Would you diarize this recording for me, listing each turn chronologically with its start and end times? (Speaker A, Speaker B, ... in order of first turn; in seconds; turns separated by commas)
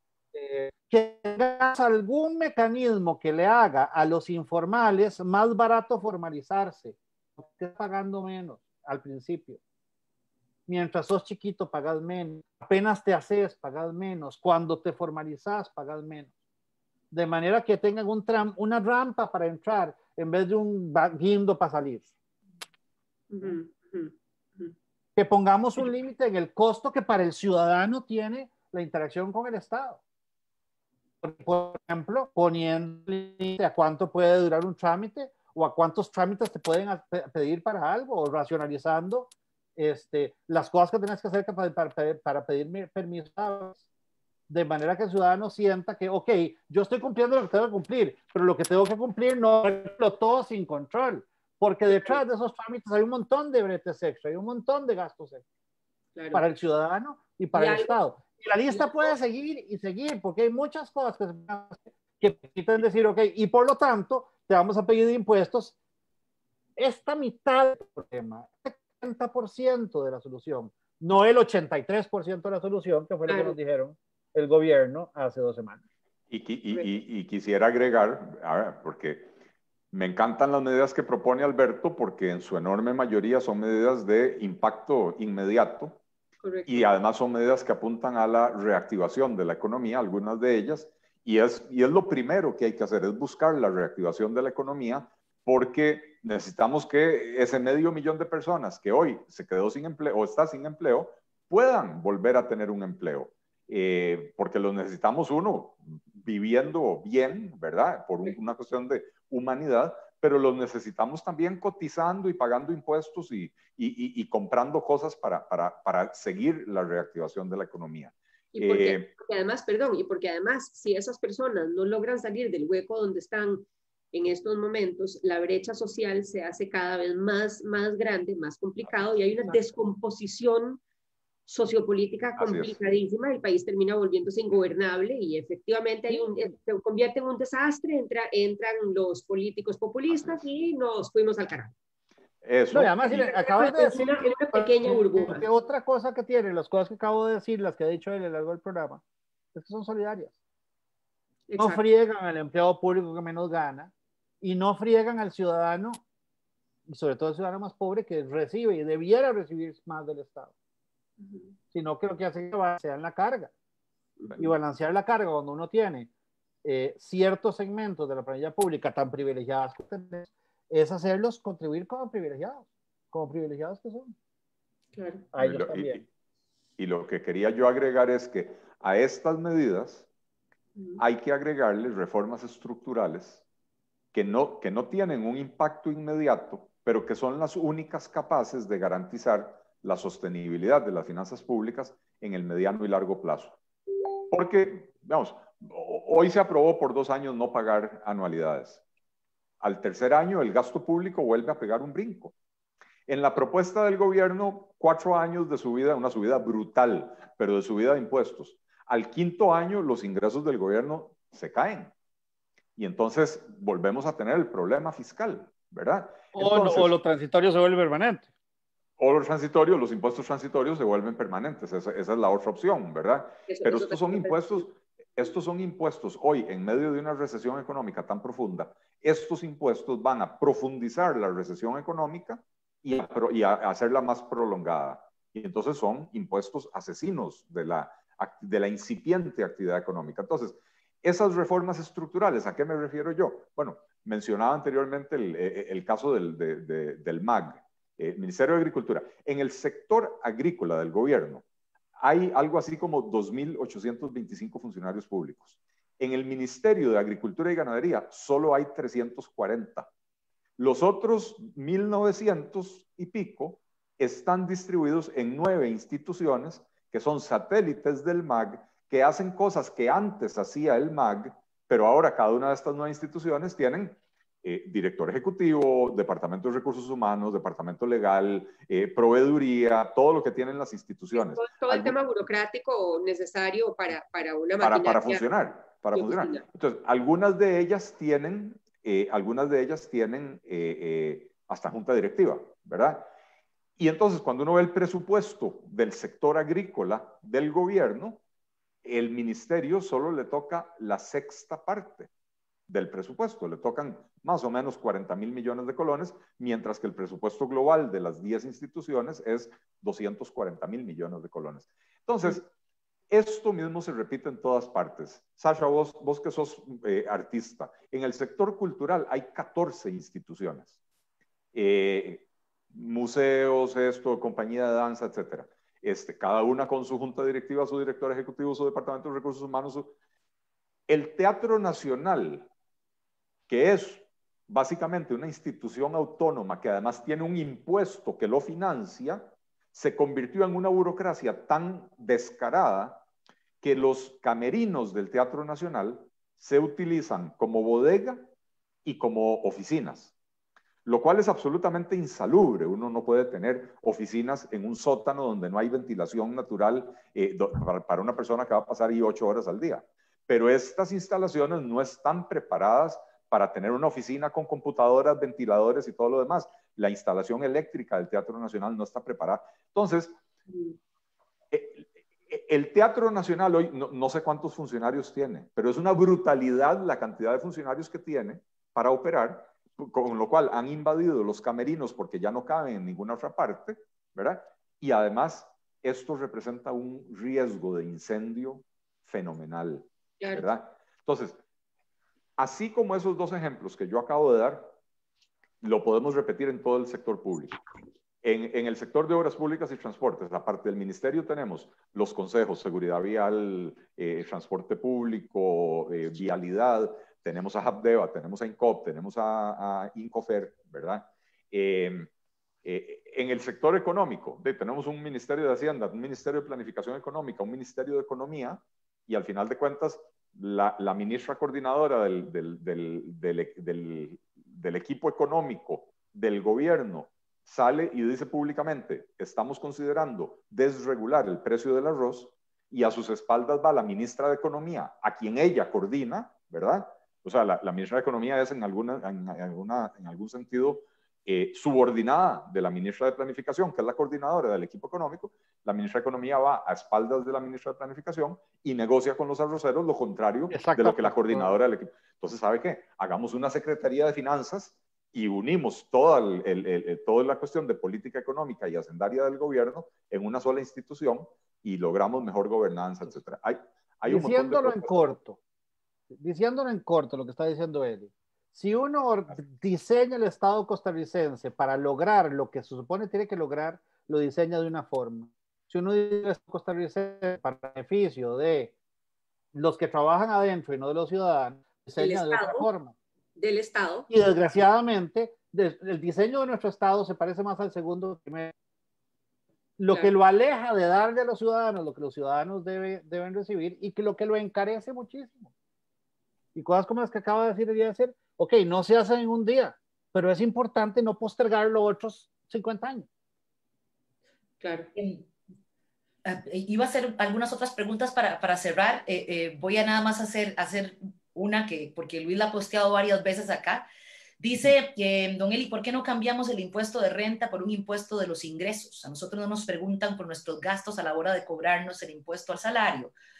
Speaker A: 0.3-9.6, Speaker A: 10.7-16.3, Speaker A: 17.1-22.1, Speaker B: 23.3-24.7, Speaker A: 25.1-30.0, Speaker A: 31.2-43.8, Speaker A: 44.5-55.4, Speaker B: 51.9-52.2, Speaker B: 56.1-56.5, Speaker A: 56.3-65.8, Speaker B: 57.5-57.9, Speaker B: 58.7-59.1, Speaker A: 66.8-75.8, Speaker B: 73.3-73.5, Speaker C: 76.3-79.3, Speaker C: 79.9-86.0, Speaker B: 86.4-86.9, Speaker C: 86.7-119.1, Speaker B: 118.5-130.8, Speaker C: 128.8-129.8, Speaker B: 131.5-141.7, Speaker C: 132.4-132.8, Speaker C: 140.1-140.4, Speaker C: 142.4-143.2, Speaker A: 142.7-149.0, Speaker B: 143.0-145.5, Speaker A: 149.5-150.3, Speaker B: 151.5-151.8, Speaker A: 151.6-156.0, Speaker A: 156.9-160.5, Speaker B: 161.2-161.6, Speaker A: 161.7-163.5, Speaker A: 164.4-166.1, Speaker A: 166.6-174.1, Speaker B: 174.9-175.3, Speaker A: 175.3-176.0, Speaker C: 175.3-176.1, Speaker C: 176.8-180.1, Speaker B: 180.8-181.0, Speaker C: 181.0-183.4, Speaker C: 184.1-193.6, Speaker C: 194.3-198.8, Speaker C: 199.6-202.3, Speaker C: 203.1-211.9, Speaker C: 212.8-216.9, Speaker A: 216.3-218.3, Speaker C: 219.0-251.4, Speaker B: 223.5-224.7, Speaker C: 252.0-259.9, Speaker C: 260.6-281.9, Speaker B: 281.1-285.2, Speaker C: 284.6-293.1, Speaker B: 285.9-286.4, Speaker C: 293.8-298.2, Speaker C: 298.8-302.1, Speaker C: 302.7-312.5, Speaker C: 313.1-320.7, Speaker C: 321.5-329.9, Speaker C: 330.9-332.5, Speaker C: 333.5-343.0, Speaker C: 343.6-348.3, Speaker C: 348.8-350.1, Speaker C: 350.8-370.1, Speaker B: 370.5-370.8, Speaker C: 371.5-391.4, Speaker B: 390.2-390.5, Speaker C: 392.4-394.7, Speaker C: 395.6-397.6, Speaker C: 398.2-412.1, Speaker C: 412.6-465.1, Speaker A: 450.5-451.5, Speaker A: 464.1-465.4, Speaker A: 466.1-478.7, Speaker A: 479.5-482.9, Speaker B: 482.0-482.7, Speaker B: 483.4-484.1, Speaker A: 484.1-488.5, Speaker A: 489.8-495.5, Speaker A: 496.5-503.1, Speaker B: 504.6-504.9, Speaker D: 504.9-505.2, Speaker D: 506.2-513.9, Speaker D: 514.4-523.1